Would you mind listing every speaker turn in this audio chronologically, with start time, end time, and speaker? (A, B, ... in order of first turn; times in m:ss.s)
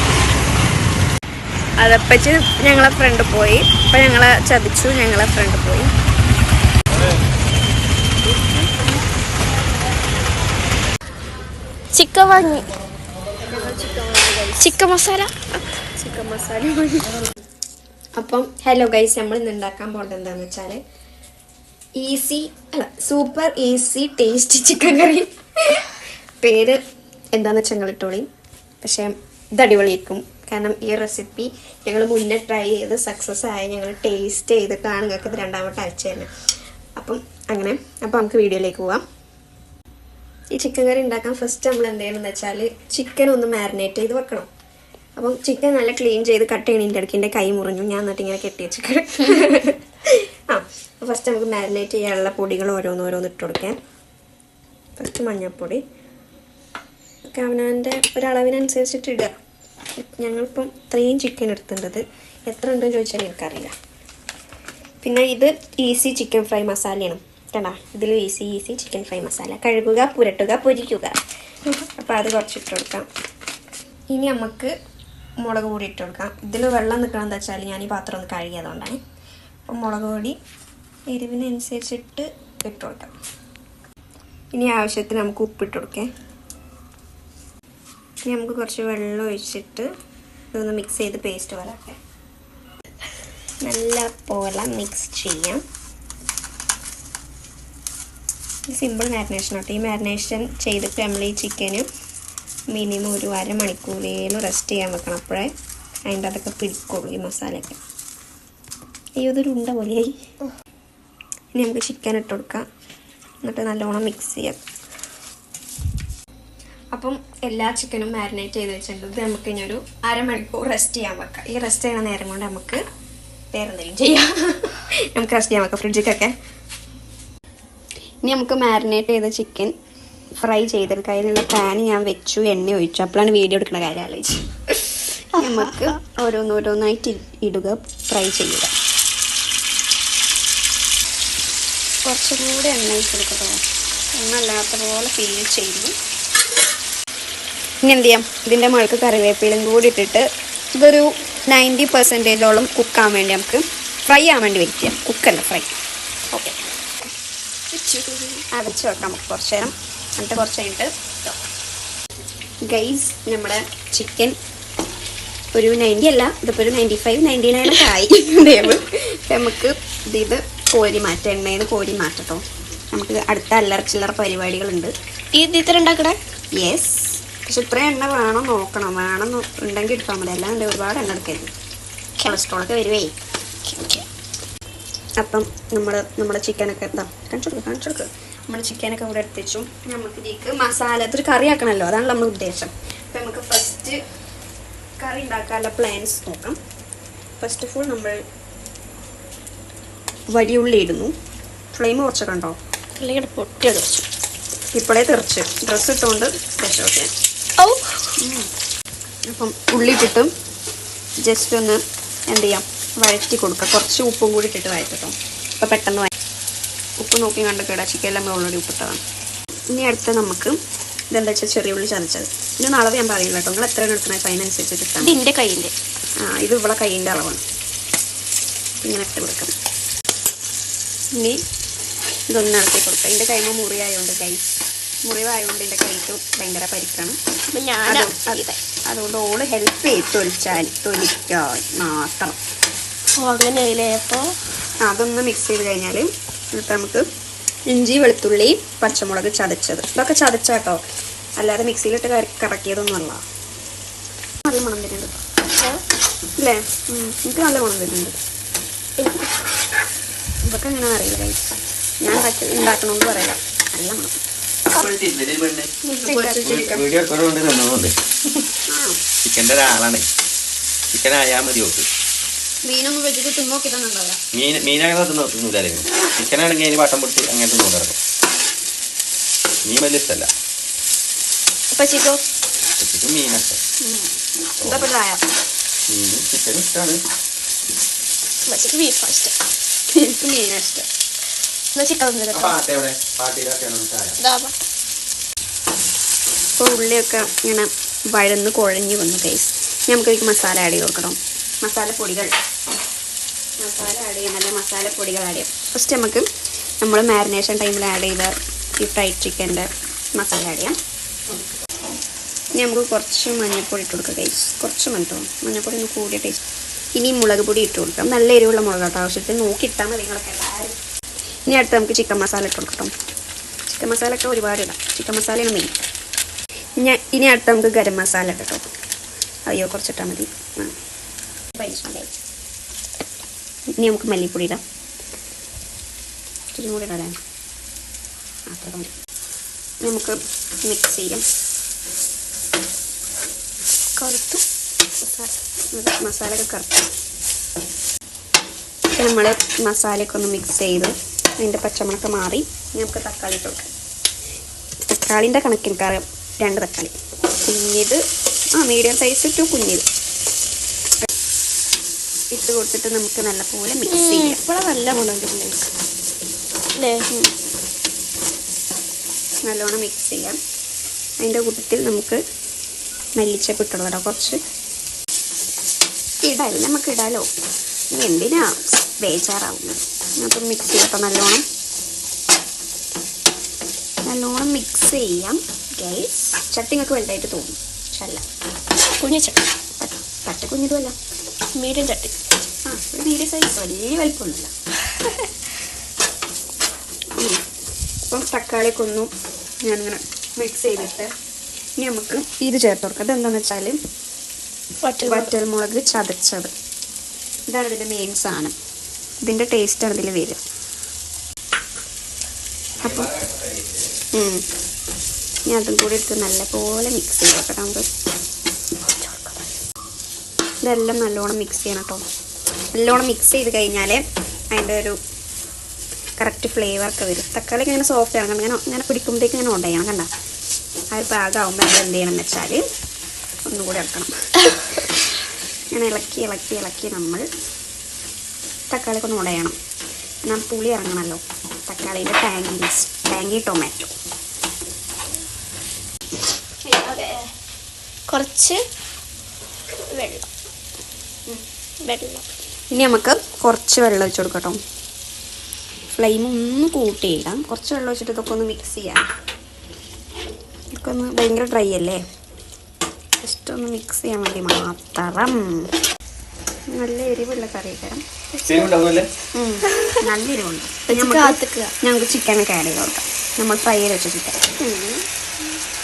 0:01.8-0:05.9 A
0:11.9-0:12.7 B
0:13.4-0:14.8 A
0:14.6-0:15.6 B
0:15.9-0:17.1 A
0:18.2-0:20.8 A
0:22.0-0:25.9 A
0:26.4-0:26.8 A
0:27.3-0:28.3 A
0:28.8-0:36.3 A
0:37.0-0:39.0 A
0:40.5-0:44.5 A
0:45.2-0:53.8 A
0:55.0-0:55.8 A
0:57.2-0:59.3 A
1:00.0-1:03.7 A
1:05.0-1:11.2 A
1:11.7-1:13.0 A
1:14.1-1:14.7 A
1:15.4-1:19.0 A
1:19.7-1:20.4 A
1:21.1-1:23.1 A
1:24.5-1:26.1 A
1:28.2-1:29.9 A
1:30.5-1:32.0 A
1:33.6-1:35.6 A
1:38.7-1:41.8 A
1:42.7-1:45.5 A
1:46.1-1:47.8 A
1:49.2-1:50.2 A
1:51.5-1:52.6 A
1:53.4-1:54.6 A
1:56.9-2:02.8 A
2:03.5-2:06.3 A
2:08.2-2:09.7 A
2:10.4-2:14.4 A
2:15.3-2:18.7 A
2:15.4-2:15.9 B
2:22.0-2:23.6 A
2:24.1-2:25.9 A
2:27.8-2:30.2 A
2:30.8-2:35.7 A
2:37.7-2:38.4 B
2:38.5-2:40.9 A
2:42.6-2:44.4 A
2:45.5-2:54.9 A
2:55.3-2:56.2 B
2:56.6-3:01.5 A
3:02.2-3:03.1 A
3:03.6-3:04.0 B
3:05.2-3:14.0 A
3:15.0-3:16.6 A
3:17.4-3:18.2 A
3:20.3-3:21.1 A
3:21.7-3:22.6 A
3:23.0-3:24.0 B
3:24.7-3:27.1 A
3:27.6-3:28.1 B
3:28.2-3:28.5 A
3:29.2-3:30.3 A
3:31.2-3:36.1 A
3:37.0-3:39.0 A
3:39.7-3:40.6 A
3:41.1-3:45.2 A
3:45.0-3:45.7 B
3:46.2-3:47.4 A
3:48.8-3:49.5 A
3:52.3-3:57.2 A
3:57.5-3:58.6 B
3:57.8-4:02.4 A
4:03.2-4:04.3 B
4:04.8-4:07.0 A
4:07.7-4:10.8 A
4:11.4-4:13.2 A
4:14.4-4:15.2 A
4:16.4-4:18.2 A
4:19.0-4:19.3 B
4:20.4-4:21.5 A
4:22.0-4:24.2 A
4:24.7-4:25.7 C
4:25.9-4:26.8 A
4:26.1-4:26.4 B
4:26.4-4:27.9 C
4:28.7-4:29.0 A
4:29.2-4:30.1 C
4:30.9-4:31.9 C
4:32.6-4:34.2 A
4:34.3-4:38.0 C
4:39.6-4:40.3 C
4:41.7-4:42.2 B
4:42.8-4:43.6 C
4:43.8-4:44.1 A
4:44.6-4:44.9 C
4:44.6-4:45.2 A
4:45.9-4:47.0 C
4:48.5-4:49.3 B
4:49.9-4:50.8 A
4:51.7-4:52.6 B
4:52.3-4:54.2 C
4:54.2-4:54.6 B
4:56.6-5:02.3 A
5:03.6-5:06.2 A
5:06.8-5:10.8 A
5:12.6-5:16.4 A
5:17.0-5:20.8 A
5:21.5-5:22.9 A
5:23.7-5:25.7 A
5:26.8-5:28.6 A
5:29.5-5:30.7 A
5:31.5-5:32.1 A
5:33.8-5:34.6 A
5:36.5-5:37.2 A
5:38.5-5:38.9 A
5:39.8-5:41.2 A
5:44.0-5:44.4 B
5:45.7-5:46.8 A
5:49.0-5:53.7 A
5:54.9-5:56.9 A
5:57.4-5:58.0 A
5:58.6-5:59.8 A
6:02.3-6:04.4 A
6:03.9-6:05.7 B
6:06.8-6:07.0 B
6:09.4-6:10.4 A
6:11.2-6:12.2 A
6:13.2-6:14.4 A
6:16.2-6:17.3 A
6:17.9-6:21.4 A
6:24.1-6:28.2 A
6:29.0-6:29.4 B
6:29.8-6:30.9 A
6:31.6-6:32.2 B
6:32.6-6:34.5 A
6:38.1-6:39.1 A
6:39.6-6:41.1 A
6:41.8-6:43.8 A
6:44.8-6:45.3 B
6:45.0-6:46.5 A
6:47.5-6:48.5 A
6:49.2-6:50.4 A
6:52.8-6:53.9 C
6:52.8-6:53.1 A
6:54.1-6:54.4 A
6:55.5-6:57.9 A
6:59.0-6:59.3 B
7:00.6-7:02.0 A
7:02.7-7:05.0 A
7:06.2-7:10.1 A
7:10.9-7:12.6 A
7:13.4-7:14.1 A
7:15.7-7:17.2 A
7:18.7-7:19.6 A
7:20.2-7:23.9 A
7:26.6-7:27.2 B
7:28.1-7:28.6 B
7:29.9-7:30.3 B
7:31.8-7:32.3 B
7:32.7-7:34.6 A
7:36.0-7:39.1 A
7:40.7-7:42.0 A
7:43.2-7:45.7 A
7:46.7-7:48.0 A
7:48.3-7:48.7 B
7:48.4-7:49.1 C
7:49.3-7:54.6 A
7:49.7-7:50.0 B
7:50.9-7:51.7 B
7:54.7-7:55.0 B